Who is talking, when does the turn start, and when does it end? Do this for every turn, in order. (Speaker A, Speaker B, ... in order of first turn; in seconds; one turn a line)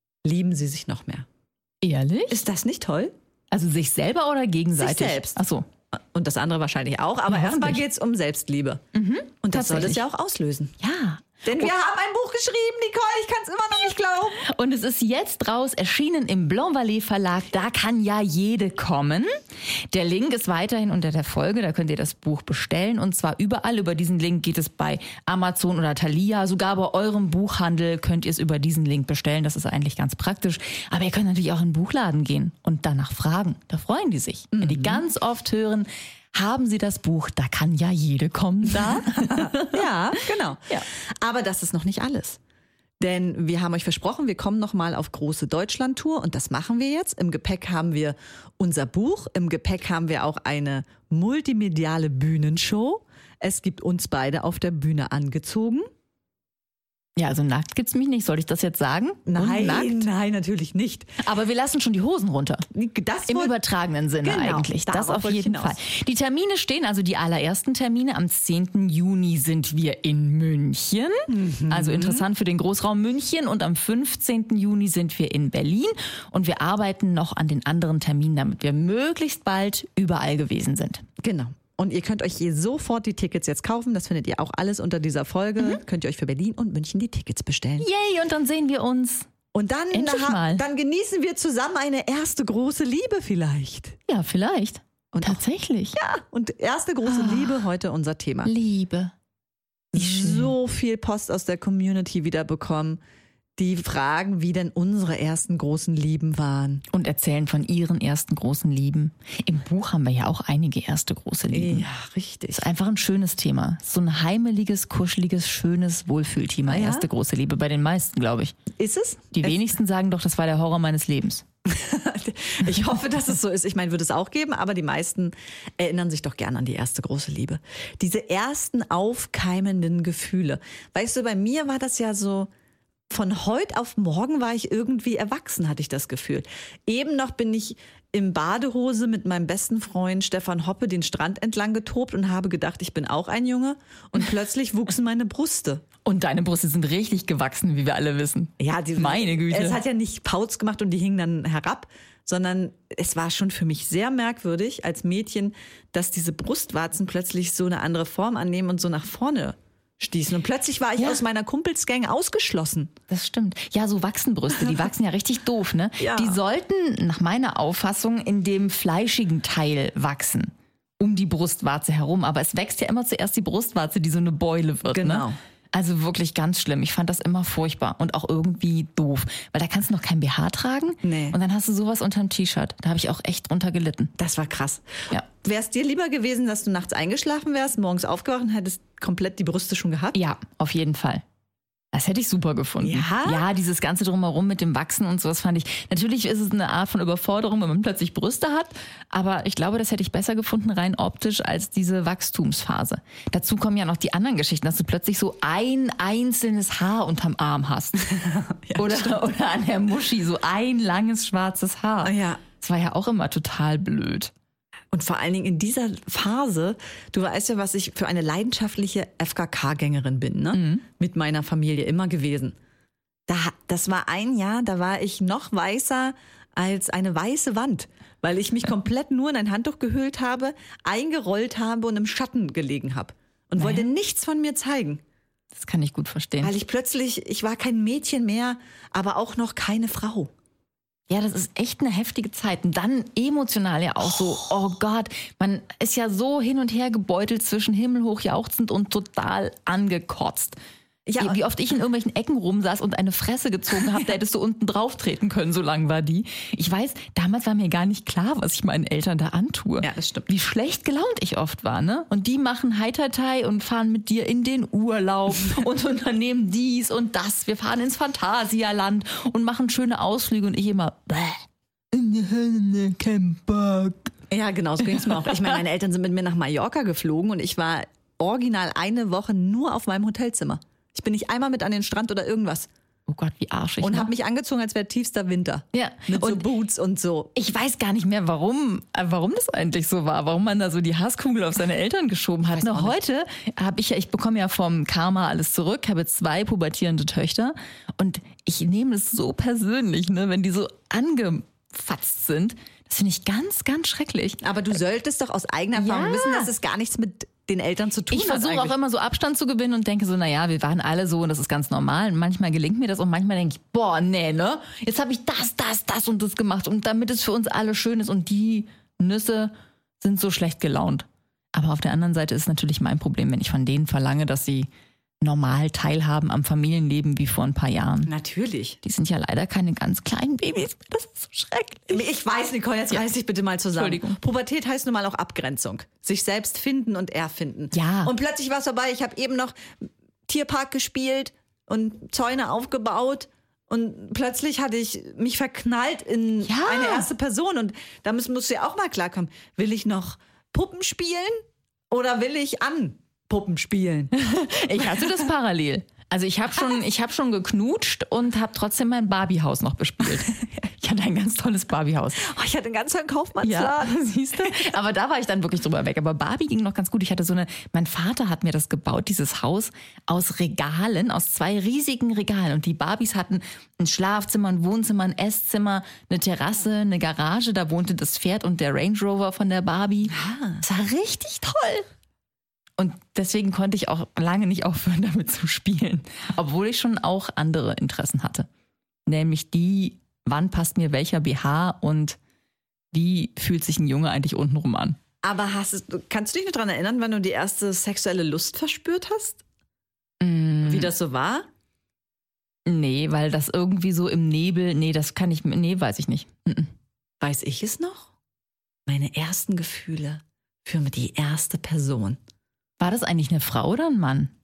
Speaker A: 0.2-1.3
Speaker B: 1.8-2.5
Speaker A: 2.3-3.1
Speaker B: 3.5-5.7
Speaker A: 4.7-5.4
Speaker A: 6.1-8.8
Speaker B: 7.3-7.8
Speaker B: 8.9-10.0
Speaker A: 9.4-10.8
Speaker B: 10.8-11.7
Speaker A: 11.4-14.4
Speaker B: 14.4-19.3
Speaker B: 19.9-39.8
Speaker A: 34.5-35.0
Speaker A: 38.7-42.4
Speaker A: 43.0-55.9
Speaker B: 57.2-60.1
Speaker A: 59.3-61.1
Speaker B: 61.2-62.7
Speaker A: 62.7-63.5
Speaker B: 63.3-81.0
Speaker A: 64.2-65.8
Speaker A: 71.3-72.2
Speaker A: 81.2-87.9
Speaker B: 87.8-89.3
Speaker A: 89.5-94.0
Speaker B: 89.9-90.6
Speaker B: 94.1-96.0
Speaker A: 95.1-95.4
Speaker A: 96.0-98.5
Speaker B: 97.0-97.6
Speaker B: 98.4-99.1
Speaker A: 99.9-103.0
Speaker B: 100.0-100.5
Speaker A: 103.6-106.8
Speaker B: 106.9-111.9
Speaker A: 111.5-112.6
Speaker B: 112.5-118.6
Speaker A: 116.7-117.1
Speaker A: 118.8-119.6
Speaker B: 119.3-121.5
Speaker A: 121.7-132.5
Speaker A: 133.1-145.8
Speaker B: 146.1-149.8
Speaker A: 148.6-162.9
Speaker B: 163.1-184.1
Speaker A: 166.0-166.4
Speaker A: 174.9-175.4
Speaker A: 181.0-181.4
Speaker A: 184.2-190.2
Speaker B: 190.1-191.2
Speaker B: 191.9-208.1
Speaker A: 192.8-193.5
Speaker A: 208.1-209.2
Speaker B: 208.8-214.3
Speaker A: 212.0-212.4
Speaker A: 214.9-222.6
Speaker B: 220.5-220.8
Speaker A: 223.3-235.0
Speaker B: 233.6-233.9
Speaker B: 235.5-236.6
Speaker A: 236.4-240.3
Speaker B: 241.1-250.6
Speaker A: 251.1-251.4
Speaker B: 251.2-274.1
Speaker A: 259.8-260.3
Speaker A: 274.3-282.7
Speaker B: 274.9-275.5
Speaker B: 283.1-284.1
Speaker A: 283.8-287.3
Speaker B: 285.7-286.4
Speaker B: 287.4-304.4
Speaker A: 292.5-293.0
Speaker A: 304.4-308.8
Speaker B: 305.8-306.5
Speaker B: 308.1-324.7
Speaker B: 325.2-328.1
Speaker A: 328.1-328.8
Speaker B: 328.8-332.0
Speaker A: 331.9-339.6
Speaker B: 333.8-334.2
Speaker B: 337.7-338.1
Speaker A: 340.3-351.4
Speaker B: 346.4-347.1
Speaker A: 351.9-354.1
Speaker B: 354.1-362.3
Speaker A: 354.7-355.2
Speaker A: 362.2-364.7
Speaker B: 363.4-381.9
Speaker A: 380.1-380.6
Speaker B: 382.8-388.5
Speaker B: 389.1-392.2
Speaker B: 392.9-395.0
Speaker A: 395.2-399.4
Speaker B: 400.2-400.9
Speaker A: 400.6-401.5
Speaker B: 402.7-406.7
Speaker A: 407.2-408.1
Speaker A: 408.9-412.2
Speaker B: 412.8-414.3